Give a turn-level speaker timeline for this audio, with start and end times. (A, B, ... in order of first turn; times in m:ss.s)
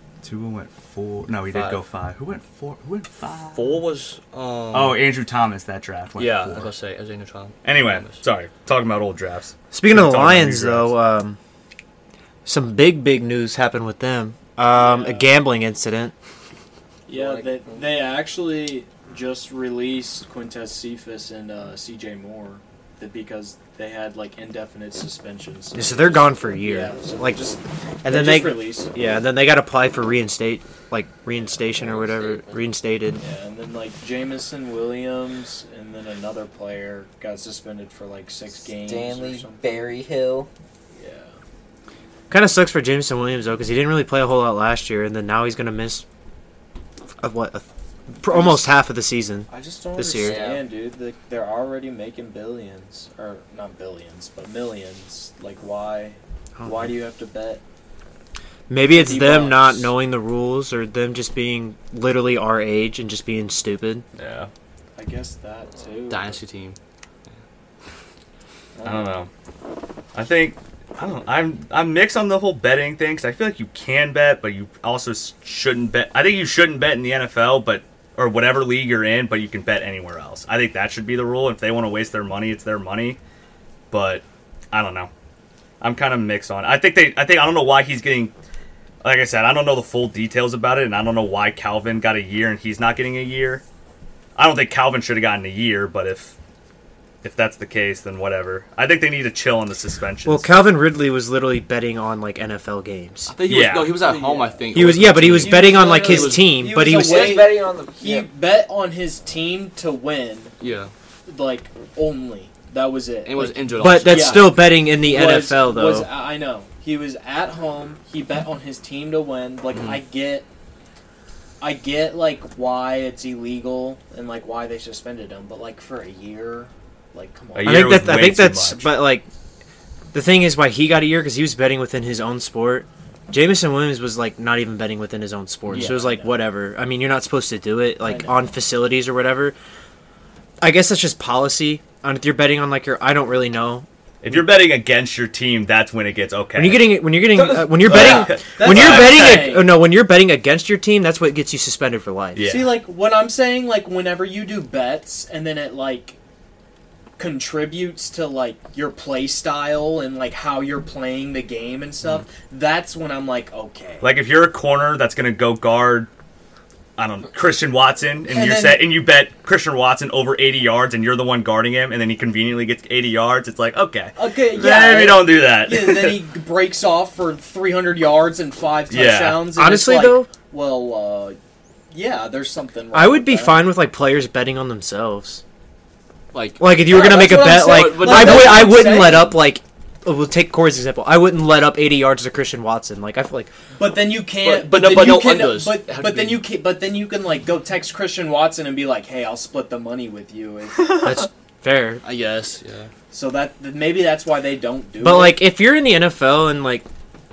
0:00.2-0:03.8 A
0:01.5-0:01.8 B
0:03.5-0:05.0 B
0:04.7-0:06.7 A
0:06.2-0:08.2 B
0:07.6-0:11.0 A
0:09.7-0:11.4 C
0:12.4-0:16.1 C
0:14.7-0:15.3 D
0:17.1-0:28.9 D
0:17.1-0:17.6 E
0:25.7-0:27.4 C
0:28.0-0:33.2 C
0:31.7-0:32.7 E
0:33.2-0:39.6 D
0:38.6-0:40.5 E
0:40.9-0:41.3 D
0:42.3-0:46.0 C
0:47.2-0:47.6 C
0:48.2-0:50.4 C
0:48.2-0:48.7 D
0:49.5-0:57.6 D
0:50.2-0:50.7 E
0:58.7-1:04.0 C
0:58.9-0:59.9 D
1:04.2-1:04.5 A
1:05.0-1:06.4 D
1:06.1-1:06.8 B
1:08.8-1:09.2 D
1:08.8-1:09.3 A
1:10.1-1:23.2 A
1:23.9-1:25.1 A
1:25.8-1:28.3 A
1:29.0-1:33.6 A
1:34.4-1:36.3 A
1:37.2-1:40.6 A
1:40.2-1:43.3 C
1:43.3-1:46.6 B
1:43.4-1:44.0 A
1:43.9-1:50.5 D
1:44.7-1:47.4 C
1:46.8-1:48.3 E
1:50.6-1:50.9 B
1:51.3-2:00.4 D
1:53.2-1:54.7 B
1:53.8-1:56.1 C
2:01.6-2:08.2 D
2:07.5-2:09.0 A
2:07.6-2:09.2 C
2:10.1-2:19.5 C
2:15.7-2:16.4 D
2:18.0-2:18.4 D
2:20.6-2:23.8 C
2:24.2-2:29.5 A
2:26.5-2:32.4 C
2:27.4-2:29.7 D
2:32.4-2:32.8 A
2:32.4-2:36.2 D
2:37.2-2:44.1 D
2:44.0-2:46.1 A
2:47.0-2:56.3 A
2:48.3-2:48.9 D
2:54.2-3:01.4 D
2:58.9-2:59.6 A
2:59.5-3:00.3 C
3:01.9-3:03.6 D
3:02.9-3:05.4 C
3:06.3-3:09.0 B
3:06.6-3:13.5 C
3:06.8-3:09.4 D
3:13.8-3:21.3 D
3:14.3-3:16.5 B
3:21.0-3:22.0 C
3:22.0-3:22.9 B
3:23.1-3:25.5 D
3:25.0-3:26.8 C